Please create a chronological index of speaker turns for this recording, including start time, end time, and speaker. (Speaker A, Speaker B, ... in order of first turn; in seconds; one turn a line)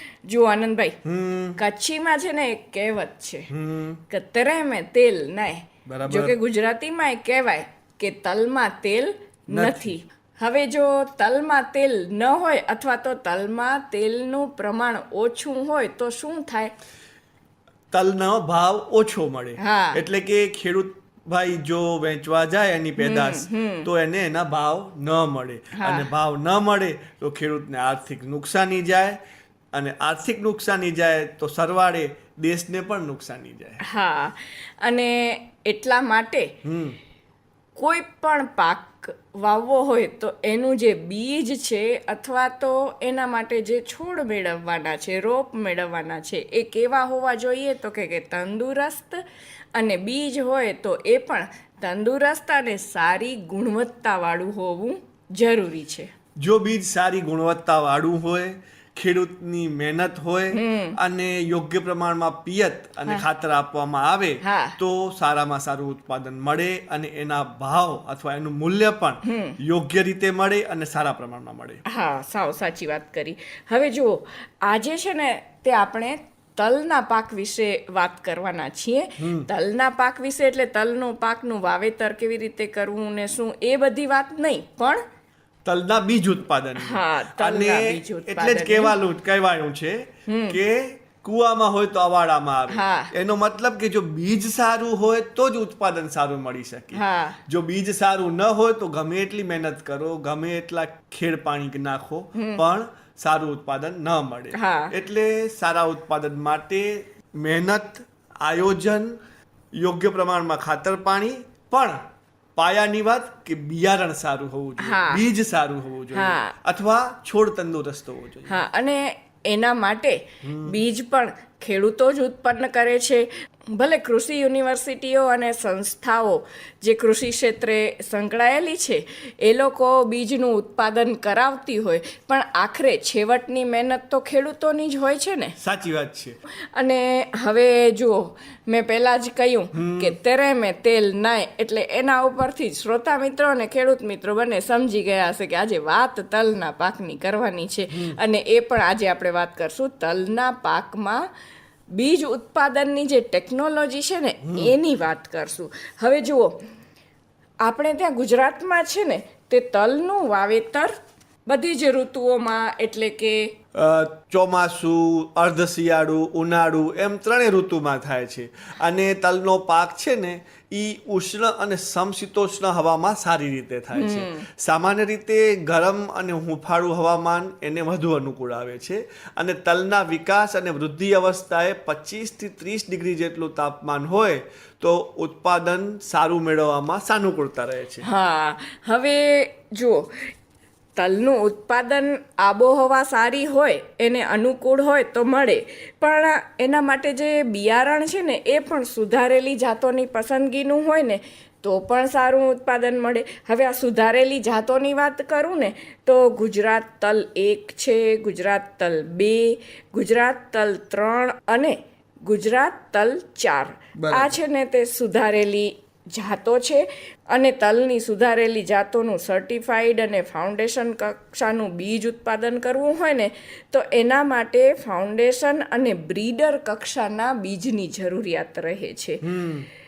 Speaker A: 0.2-1.0
Speaker B: 1.0-1.6
Speaker A: 1.6-3.5
Speaker B: 3.5-4.0
Speaker A: 4.1-16.7
Speaker B: 5.8-6.3
Speaker B: 9.5-9.9
Speaker B: 17.9-29.2
Speaker A: 19.6-20.0
Speaker A: 23.0-23.9
Speaker A: 25.7-26.1
Speaker B: 29.7-33.8
Speaker A: 33.8-36.5
Speaker B: 36.6-37.0
Speaker A: 37.8-49.2
Speaker A: 49.7-56.1
Speaker B: 56.4-71.8
Speaker A: 60.5-61.0
Speaker A: 64.4-64.8
Speaker A: 69.2-69.6
Speaker A: 71.8-85.0
Speaker B: 79.2-79.5
Speaker B: 85.6-109.2
Speaker A: 86.8-89.0
Speaker A: 90.3-90.6
Speaker A: 92.7-93.1
Speaker A: 96.9-97.4
Speaker A: 102.3-102.6
Speaker A: 104.5-104.9
Speaker B: 109.8-112.0
Speaker B: 112.5-118.6
Speaker A: 114.8-115.2
Speaker A: 116.1-116.5
Speaker A: 118.5-135.5
Speaker B: 120.4-120.8
Speaker B: 135.6-136.4
Speaker A: 136.7-151.3
Speaker B: 139.7-140.2
Speaker A: 151.9-156.6
Speaker B: 154.5-154.7
Speaker A: 157.6-160.9
Speaker A: 161.5-163.4
Speaker B: 163.7-188.1
Speaker A: 173.9-174.4
Speaker A: 188.0-190.2
Speaker A: 190.9-229.2
Speaker B: 214.0-214.4
Speaker B: 229.2-229.7